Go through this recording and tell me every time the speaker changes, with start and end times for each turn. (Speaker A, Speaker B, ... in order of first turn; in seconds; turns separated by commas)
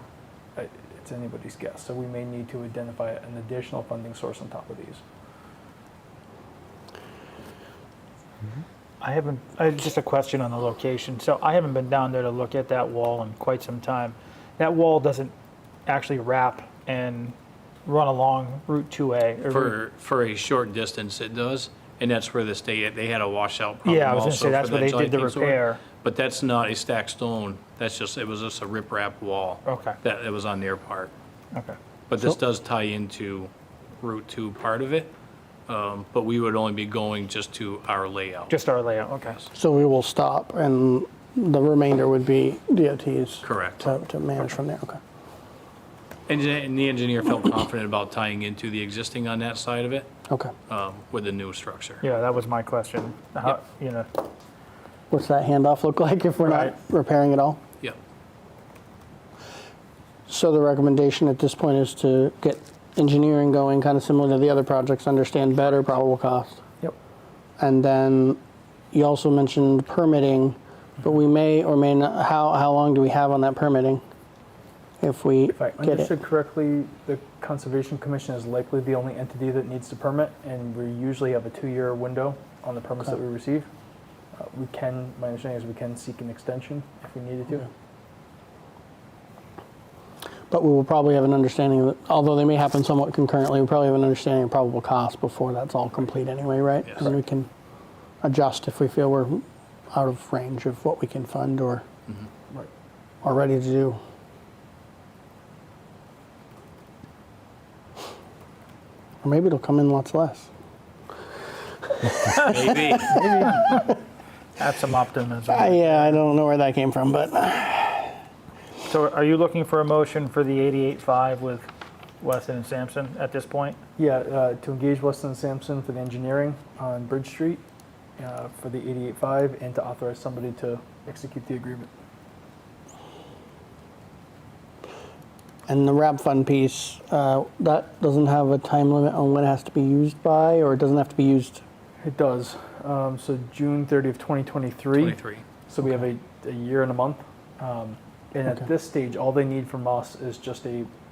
Speaker A: 0.6-5.0, Speaker B: 9.0-15.3, Speaker B: 15.9-17.4, Speaker B: 17.9-19.8, Speaker C: 19.5-31.1, Speaker B: 23.8-25.8, Speaker B: 29.7-30.0, Speaker C: 32.1-35.1, Speaker C: 35.7-38.5, Speaker B: 38.5-39.5, Speaker D: 39.5-45.0, Speaker C: 43.4-43.9, Speaker C: 46.3-50.1, Speaker C: 50.7-52.0, Speaker B: 52.0-54.1, Speaker D: 55.1-57.6, Speaker B: 56.5-56.7, Speaker D: 60.3-66.6, Speaker D: 67.6-68.4, Speaker D: 68.9-74.0, Speaker D: 75.0-76.1, Speaker A: 75.5-83.7, Speaker A: 84.3-87.7, Speaker D: 90.5-97.5, Speaker D: 98.2-101.9, Speaker D: 103.2-104.0, Speaker D: 109.2-110.5, Speaker D: 112.0-114.0, Speaker C: 112.5-113.2, Speaker B: 114.6-116.2, Speaker D: 115.5-118.2, Speaker B: 118.8-121.7, Speaker B: 122.2-123.8, Speaker A: 124.0-127.6, Speaker A: 128.2-131.9, Speaker D: 135.7-141.6, Speaker A: 142.0-150.9, Speaker C: 145.0-145.5